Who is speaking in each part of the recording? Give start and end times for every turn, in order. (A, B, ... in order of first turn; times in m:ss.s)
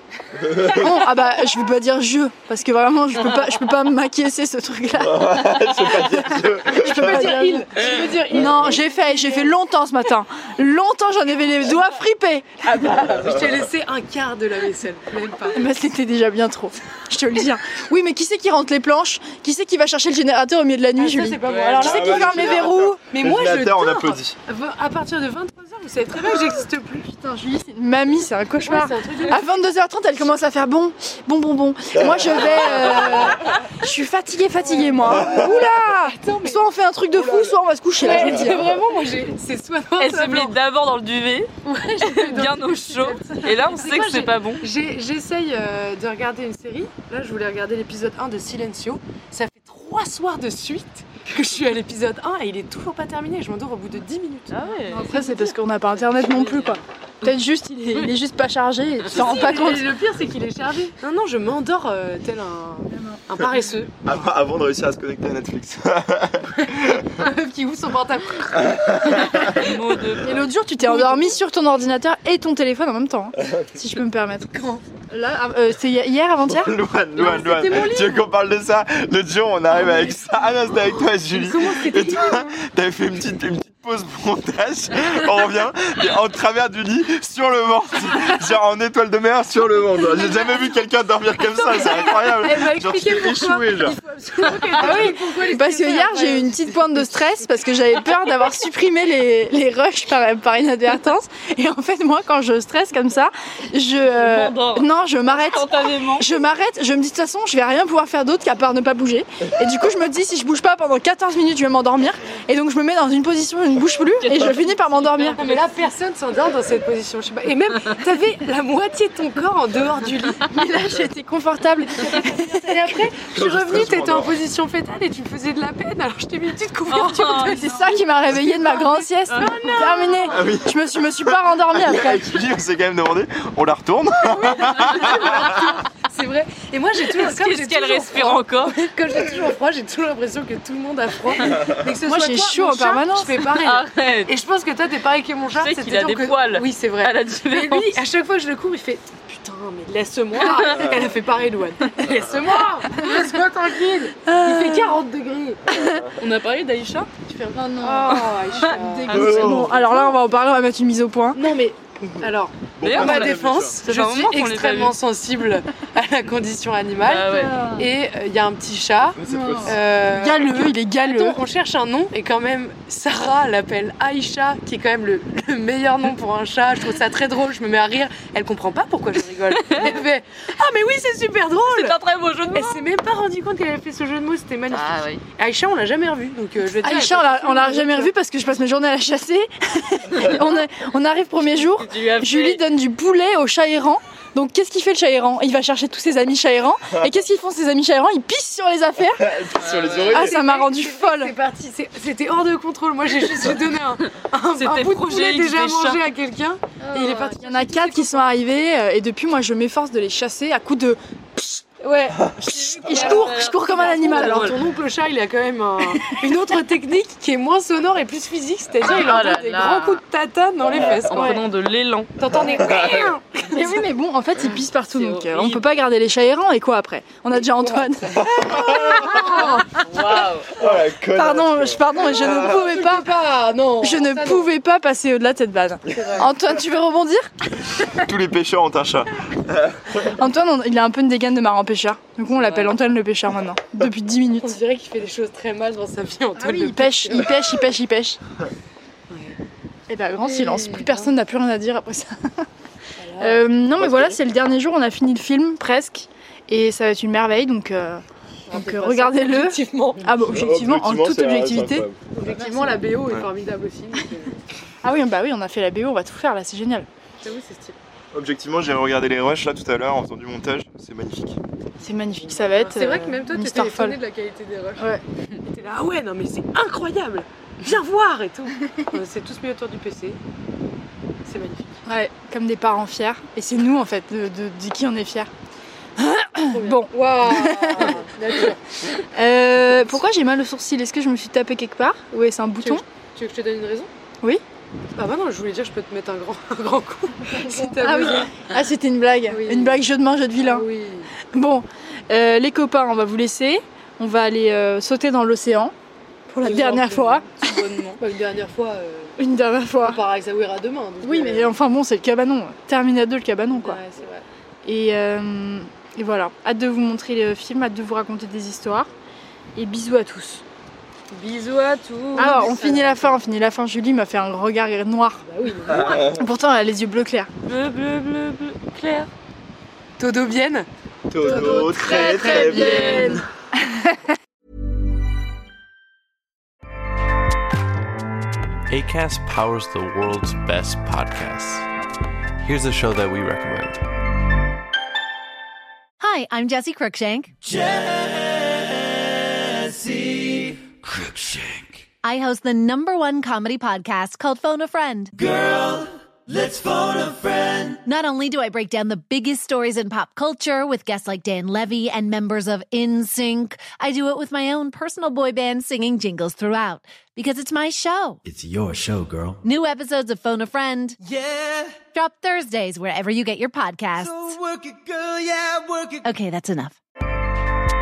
0:00.5-0:00.8 A
0:00.6-0:13.0 B
0:05.0-0:07.3 A
0:06.7-0:09.5 C
0:08.4-0:08.7 A
0:12.8-0:15.6 C
0:15.5-0:23.0 B
0:21.0-0:27.1 C
0:21.5-0:21.8 D
0:21.8-0:24.4 A
0:27.1-0:38.7 B
0:28.6-0:29.4 C
0:34.6-0:40.5 C
0:40.0-0:41.5 D
0:41.6-0:55.5 C
0:42.0-0:44.7 D
0:54.5-0:55.0 D
0:54.9-0:59.9 B
0:56.3-0:56.7 C
0:59.1-1:04.0 C
1:02.9-1:03.2 B
1:04.0-1:07.0 A
1:07.0-1:09.2 C
1:09.2-1:10.4 D
1:10.2-1:14.5 B
1:10.8-1:11.3 C
1:14.5-1:14.8 C
1:15.1-1:16.8 B
1:16.5-1:34.0 A
1:17.2-1:18.3 C
1:19.7-1:20.2 C
1:21.3-1:22.5 C
1:30.0-1:30.5 C
1:31.4-1:36.8 C
1:34.8-1:55.4 B
1:44.0-1:46.2 D
1:54.2-1:55.6 D
1:55.4-2:00.5 C
2:00.4-2:02.7 B
2:02.0-2:10.4 C
2:03.3-2:04.4 A
2:06.9-2:08.0 D
2:07.4-2:12.4 B
2:10.3-2:15.4 A
2:14.2-2:35.6 C
2:17.1-2:18.8 D
2:22.0-2:23.4 B
2:23.6-2:24.3 D
2:25.6-2:28.0 D
2:30.4-2:30.9 D
2:34.2-2:35.0 B
2:35.7-2:36.0 B
2:36.2-2:37.1 D
2:37.3-2:41.4 B
2:37.8-2:39.5 C
2:39.1-2:40.2 D
2:39.1-2:39.8 A
2:41.3-3:02.0 C
2:42.8-2:43.8 A
2:42.8-2:45.0 D
2:47.0-2:47.8 D
2:47.4-2:47.7 B
2:49.2-2:49.8 A
2:49.2-2:51.4 B
2:59.6-3:00.0 D
3:01.7-3:02.9 D
3:02.5-3:08.1 C
3:04.7-3:05.2 D
3:06.8-3:19.3 B
3:11.6-3:12.6 D
3:19.2-3:20.4 A
3:19.6-3:20.2 D
3:20.1-3:21.3 B
3:20.1-3:28.3 C
3:24.5-3:26.0 D
3:26.9-3:31.6 B
3:31.8-3:41.4 C
3:32.4-3:34.5 B
3:32.4-3:34.6 D
3:38.8-3:40.0 D
3:41.0-3:43.2 D
3:41.1-3:41.4 B
3:42.2-3:43.5 C
3:43.4-3:49.7 B
3:44.5-3:45.7 D
3:47.4-3:48.3 C
3:48.4-3:49.2 A
3:49.5-3:50.5 D
3:50.5-3:52.4 A
3:50.6-3:53.1 B
3:52.1-3:54.5 C
3:53.8-3:57.3 B
3:55.9-3:56.3 C
3:58.0-3:59.9 A
4:00.2-4:04.6 B
4:02.4-4:02.7 C
4:04.4-4:07.6 C
4:06.4-4:08.2 B
4:09.1-4:09.4 C
4:09.9-4:12.4 B
4:10.2-4:11.1 C
4:13.0-4:13.4 C
4:13.2-4:21.9 B
4:13.7-4:14.2 A
4:18.5-4:20.2 C
4:20.3-4:22.0 A
4:22.1-4:24.4 C
4:24.8-4:26.9 B
4:27.2-4:27.8 C
4:28.1-4:31.4 A
4:31.8-4:34.0 B
4:32.4-4:34.8 C
4:34.8-4:35.0 B
4:35.4-4:40.2 C
4:41.2-4:41.8 C
4:41.8-4:45.3 B
4:46.0-4:48.0 B
4:46.5-4:48.6 C
4:49.1-4:52.8 B
4:52.6-4:53.9 C
4:54.9-4:58.4 C
4:57.7-5:00.7 B
4:59.3-4:59.8 C
5:00.4-5:01.1 C
5:01.2-5:05.7 B
5:06.3-5:08.0 B
5:06.4-5:07.2 C
5:07.4-5:07.9 D
5:08.0-5:09.2 C
5:09.2-5:10.0 B
5:09.8-5:11.6 C
5:11.0-5:13.8 B
5:13.6-5:14.2 C
5:14.6-5:18.9 B
5:19.5-5:20.4 B
5:21.1-5:22.6 D
5:22.1-5:23.2 C
5:22.2-5:25.2 B
5:25.3-5:26.1 C
5:25.7-5:26.2 A
5:25.9-5:27.3 B
5:27.4-5:29.1 D
5:30.0-5:30.7 C
5:31.1-5:33.2 A
5:31.2-5:32.9 C
5:31.2-5:33.8 B
5:32.2-5:33.2 D
5:38.7-5:41.7 E
5:42.4-5:43.8 E
5:46.0-5:47.3 F
5:47.6-5:48.3 G
5:49.7-5:51.6 G
5:52.0-5:55.4 F
5:55.4-5:57.6 G
5:57.7-6:08.2 F
6:08.3-6:09.4 G
6:09.4-6:11.0 F
6:11.2-6:11.7 G
6:11.8-6:14.4 F
6:14.3-6:16.0 G
6:16.0-6:16.8 F